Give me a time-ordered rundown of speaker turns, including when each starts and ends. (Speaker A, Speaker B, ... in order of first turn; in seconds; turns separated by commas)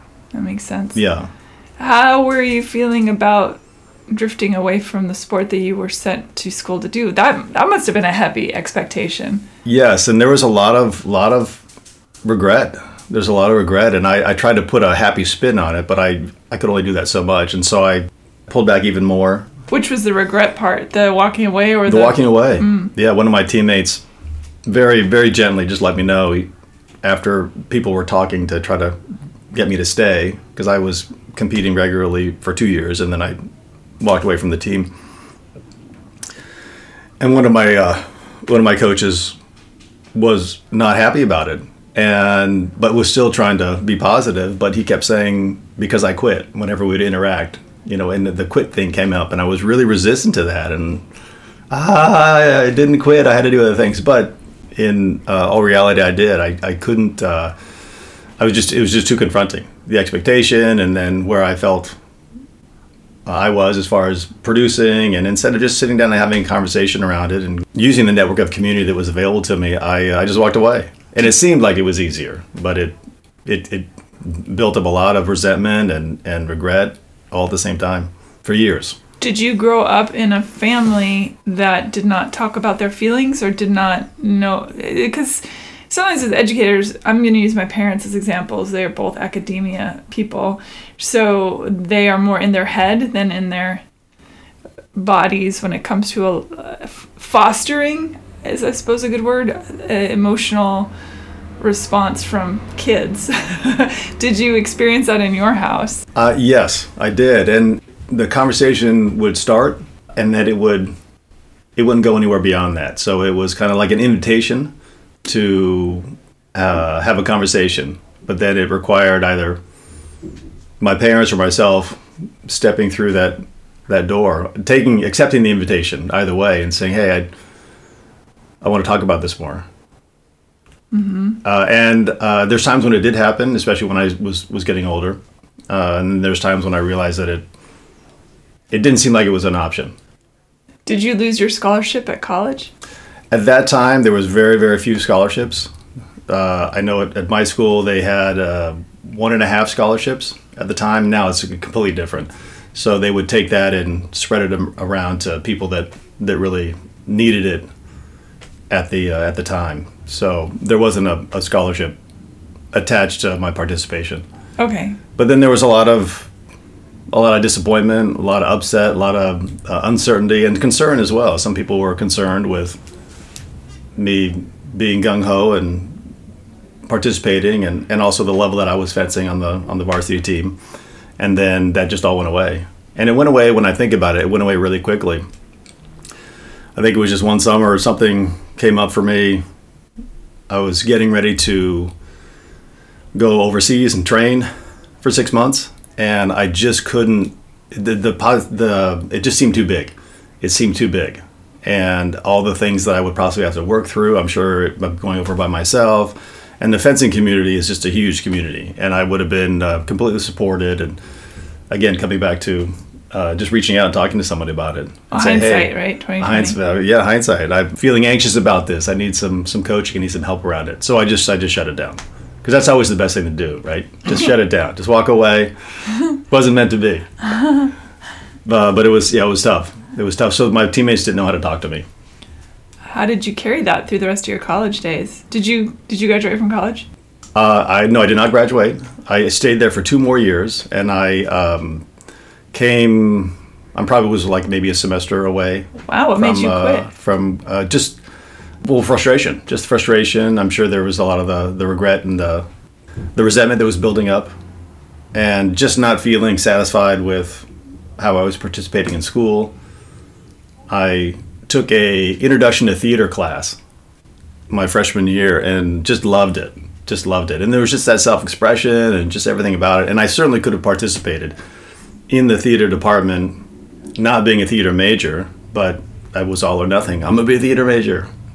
Speaker A: 0.3-1.0, Speaker B: 0.9-1.3, Speaker A: 1.8-9.4, Speaker B: 9.7-11.6, Speaker B: 12.2-19.5, Speaker A: 19.7-22.9, Speaker B: 21.9-24.0, Speaker B: 24.7-26.5, Speaker B: 27.0-29.0, Speaker B: 29.5-33.4, Speaker B: 34.0-34.9, Speaker B: 37.2-39.4, Speaker B: 40.1-51.0, Speaker B: 51.7-57.5, Speaker B: 58.4-62.0, Speaker B: 63.3-79.0, Speaker A: 79.2-93.8, Speaker A: 95.0-100.9, Speaker A: 101.6-106.0, Speaker B: 106.2-110.9, Speaker B: 111.8-114.7, Speaker B: 115.2-119.6, Speaker B: 120.8-127.3, Speaker B: 128.6-129.7, Speaker A: 130.9-131.4, Speaker B: 131.4-137.4, Speaker B: 138.7-139.9, Speaker A: 140.9-142.7, Speaker B: 143.3-145.7, Speaker B: 146.3-157.7, Speaker B: 158.7-162.0, Speaker B: 162.7-164.2, Speaker A: 164.6-165.0, Speaker B: 165.2-166.3, Speaker B: 167.1-172.8, Speaker B: 174.0-176.0, Speaker B: 176.9-180.6, Speaker B: 181.2-185.2, Speaker B: 186.8-189.4, Speaker B: 190.5-191.9, Speaker B: 193.2-194.5, Speaker B: 195.0-211.0, Speaker B: 211.7-225.5, Speaker A: 215.1-216.6, Speaker B: 226.3-227.1, Speaker B: 228.5-231.8, Speaker A: 232.9-236.9, Speaker B: 237.3-241.8, Speaker B: 242.5-248.0, Speaker A: 245.9-246.9, Speaker B: 248.6-252.4, Speaker B: 253.2-254.3, Speaker B: 255.1-257.5, Speaker B: 258.0-259.5, Speaker B: 260.7-263.6, Speaker B: 264.5-271.4, Speaker B: 272.1-273.4, Speaker B: 274.0-278.1